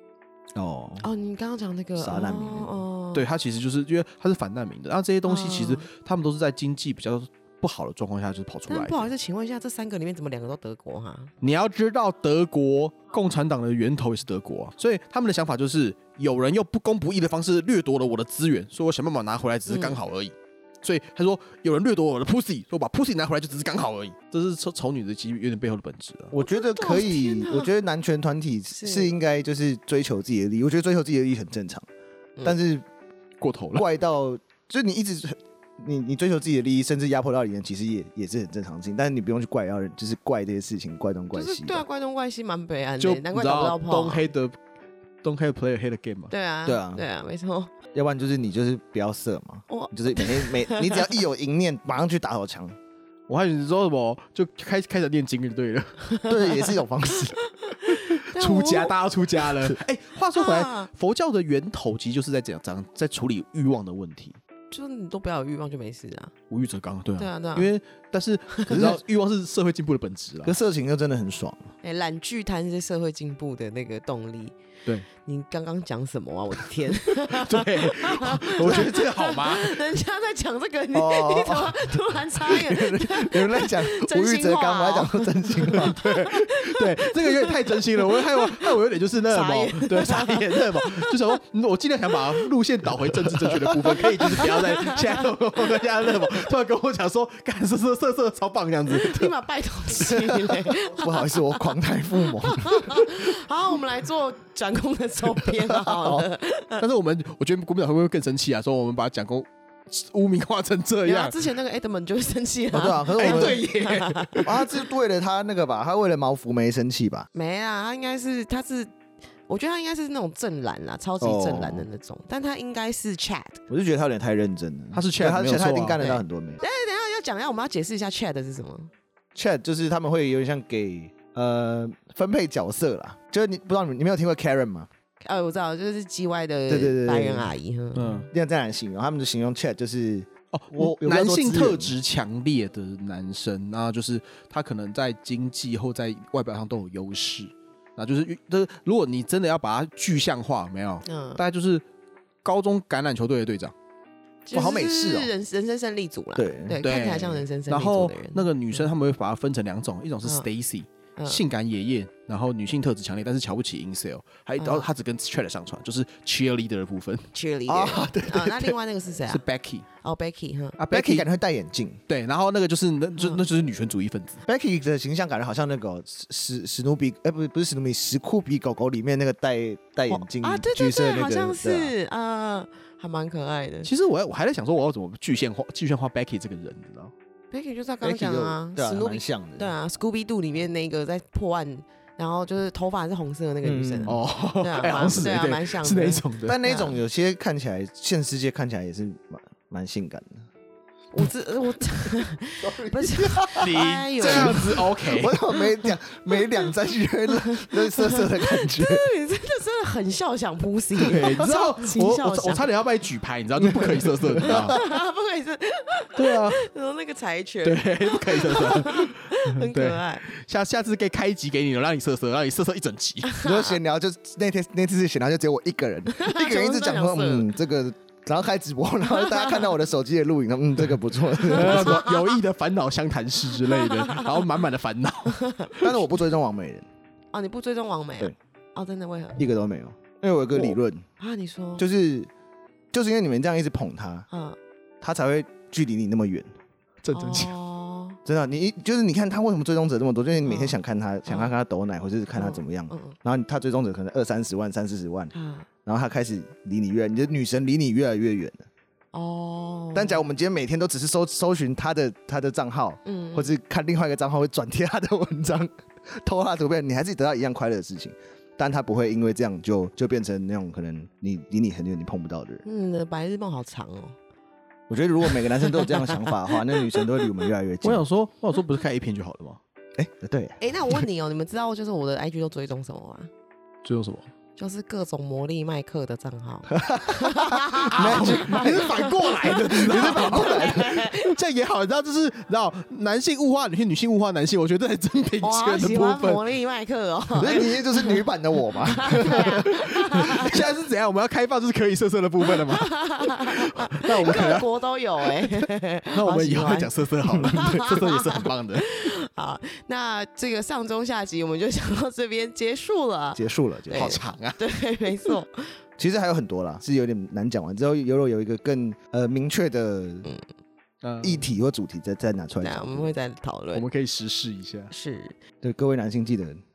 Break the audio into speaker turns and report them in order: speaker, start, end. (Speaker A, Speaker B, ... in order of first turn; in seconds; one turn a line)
Speaker A: 0.6-1.1
Speaker B: 1.0-3.3
Speaker A: 2.0-2.8
Speaker C: 3.1-9.1
Speaker B: 5.3-5.9
Speaker B: 8.7-11.3
Speaker C: 11.4-26.4
Speaker B: 19.7-20.0
Speaker A: 26.3-31.9
Speaker B: 26.5-27.7
Speaker B: 28.8-29.1
Speaker A: 32.4-32.9
Speaker C: 33.4-33.9
Speaker A: 33.8-41.9
Speaker B: 41.3-44.3
Speaker C: 43.0-44.6
Speaker C: 45.2-46.3
Speaker B: 46.3-47.7
Speaker A: 46.6-47.0
Speaker A: 47.9-52.8
Speaker B: 49.7-51.1
Speaker C: 53.3-56.0
Speaker B: 56.1-56.8
Speaker A: 56.3-57.4
Speaker B: 57.4-59.0
Speaker C: 57.9-64.4
Speaker B: 60.4-60.9
Speaker B: 64.7-66.3
Speaker C: 66.5-70.6
Speaker B: 67.2-67.7
Speaker A: 68.7-69.0
Speaker A: 70.4-71.7
Speaker B: 71.8-74.6
Speaker B: 75.2-88.8
Speaker C: 77.3-79.9
Speaker A: 80.9-86.0
Speaker C: 85.7-99.3
Speaker B: 89.3-91.2
Speaker A: 93.3-94.0
Speaker B: 94.0-95.8
Speaker B: 98.9-101.7
Speaker A: 100.0-103.1
Speaker B: 102.2-106.8
Speaker A: 105.6-106.3
Speaker C: 106.8-111.4
Speaker B: 111.0-114.5
Speaker A: 112.7-113.7
Speaker C: 113.2-114.6
Speaker A: 114.4-117.3
Speaker B: 117.3-118.9
Speaker B: 119.5-123.6
Speaker A: 121.2-121.9
Speaker A: 123.7-126.6
Speaker C: 124.9-126.0
Speaker B: 126.0-128.9
Speaker A: 129.3-134.9
Speaker B: 135.2-138.3
Speaker A: 136.7-137.5
Speaker C: 137.9-138.3
Speaker A: 138.3-141.9
Speaker C: 140.5-151.8
Speaker B: 151.1-151.4
Speaker C: 152.4-153.7
Speaker B: 154.5-158.9
Speaker A: 154.5-155.3
Speaker A: 156.4-156.8
Speaker C: 156.8-167.3
Speaker B: 161.2-161.4
Speaker B: 164.6-164.9
Speaker B: 167.3-169.4
Speaker A: 167.7-168.7
Speaker C: 169.3-169.9
Speaker B: 170.0-170.8
Speaker C: 170.8-171.3
Speaker A: 170.9-172.0
Speaker C: 172.1-174.4
Speaker A: 174.4-181.9
Speaker B: 180.1-183.9
Speaker C: 183.8-187.1
Speaker B: 187.5-197.0
Speaker A: 188.0-189.7
Speaker A: 193.6-194.2
Speaker C: 194.1-196.6
Speaker A: 196.4-200.5
Speaker B: 201.1-204.9
Speaker A: 202.6-209.0
Speaker C: 203.6-205.4
Speaker B: 205.5-206.4
Speaker B: 207.3-212.7
Speaker C: 211.0-214.8
Speaker A: 213.6-214.8
Speaker B: 214.4-220.3
Speaker C: 216.2-216.6
Speaker C: 217.6-223.3
Speaker B: 223.3-223.7
Speaker A: 223.4-232.0
Speaker B: 226.1-227.5
Speaker B: 229.1-229.7
Speaker B: 231.4-232.4
Speaker C: 231.5-236.0
Speaker B: 233.6-234.3
Speaker B: 235.3-235.7
Speaker A: 235.8-236.9
Speaker B: 237.3-239.4
Speaker A: 239.4-241.1
Speaker B: 241.2-241.8
Speaker A: 241.8-242.3
Speaker A: 242.9-244.3
Speaker B: 244.3-244.6
Speaker A: 245.0-246.5
Speaker C: 247.0-247.5
Speaker B: 247.1-248.2
Speaker A: 248.3-255.3
Speaker B: 250.4-251.5
Speaker B: 252.4-253.2
Speaker B: 255.3-255.7
Speaker A: 255.9-258.7
Speaker B: 259.1-260.2
Speaker A: 259.9-272.6
Speaker B: 263.1-263.5
Speaker B: 272.6-274.1
Speaker A: 274.9-278.1
Speaker B: 275.6-277.3
Speaker C: 277.8-279.6
Speaker A: 280.0-280.6
Speaker B: 280.6-283.3
Speaker C: 283.8-284.3
Speaker B: 284.6-291.4
Speaker A: 286.7-288.9
Speaker C: 287.9-296.4
Speaker A: 289.6-291.0
Speaker B: 295.4-298.2
Speaker A: 297.4-299.6
Speaker B: 298.9-300.6
Speaker C: 299.1-304.7
Speaker B: 302.4-315.7
Speaker C: 305.2-309.1
Speaker A: 313.4-314.1
Speaker C: 313.9-314.6
Speaker A: 316.0-320.3
Speaker C: 321.0-321.5
Speaker A: 321.2-323.1
Speaker B: 322.6-323.9
Speaker C: 323.7-324.9
Speaker B: 324.9-325.4
Speaker A: 325.6-326.6